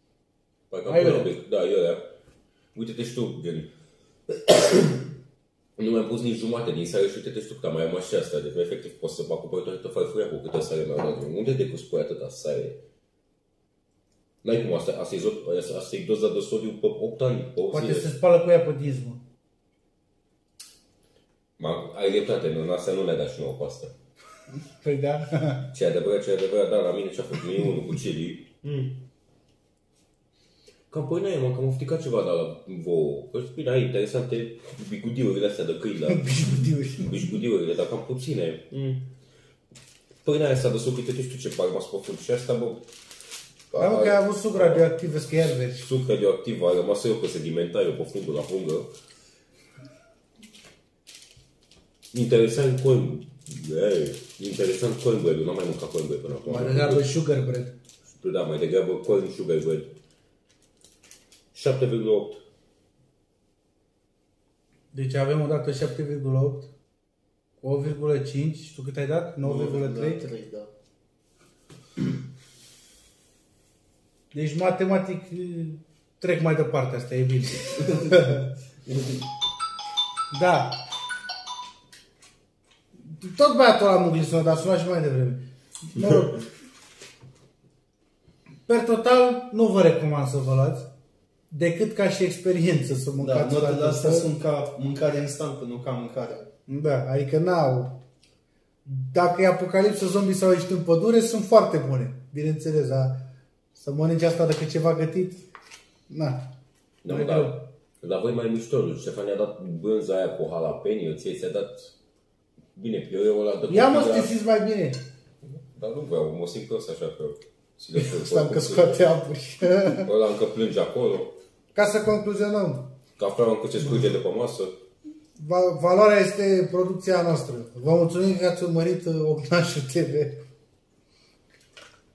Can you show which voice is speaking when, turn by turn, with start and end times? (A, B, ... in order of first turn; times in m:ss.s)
0:00.7-0:02.0 A
0:00.8-0:01.3 B
0:02.7-0:03.7 A
0:04.3-0:05.0 A
0:05.8-0:12.8 A
0:14.4-0:18.1 A
0:17.7-0:19.2 B
0:21.6-0:23.9 A
0:24.5-0:25.7 B
0:25.7-0:28.6 A
0:28.6-0:28.9 C
0:30.9-0:36.4 A
0:36.1-0:37.1 B
0:37.0-0:38.7 A
0:38.7-0:39.0 C
0:40.2-0:42.8 A
0:43.7-0:44.9 A
0:43.8-0:45.8 B
0:45.7-0:48.9 A
0:52.1-0:57.2 A
0:56.4-0:57.8 B
0:58.1-0:59.9 A
1:01.5-1:02.4 A
1:04.9-1:06.7 B
1:07.6-1:10.2 B
1:09.4-1:10.7 C
1:14.3-1:18.4 B
1:17.8-1:18.3 C
1:18.8-1:19.3 C
1:20.3-1:20.8 B
1:23.0-1:26.4 B
1:28.6-1:30.9 B
1:31.5-1:34.3 B
1:33.2-1:36.5 C
1:36.7-1:38.0 B
1:38.9-1:45.4 B
1:46.1-1:46.4 B
1:47.0-1:51.9 A
1:47.0-1:47.6 B
1:52.7-1:54.3 A
1:53.7-1:55.0 B
1:55.4-1:59.0 A
1:58.0-2:00.1 B
1:59.9-2:01.3 A
2:01.7-2:02.9 B
2:03.2-2:04.7 A
2:05.4-2:10.4 B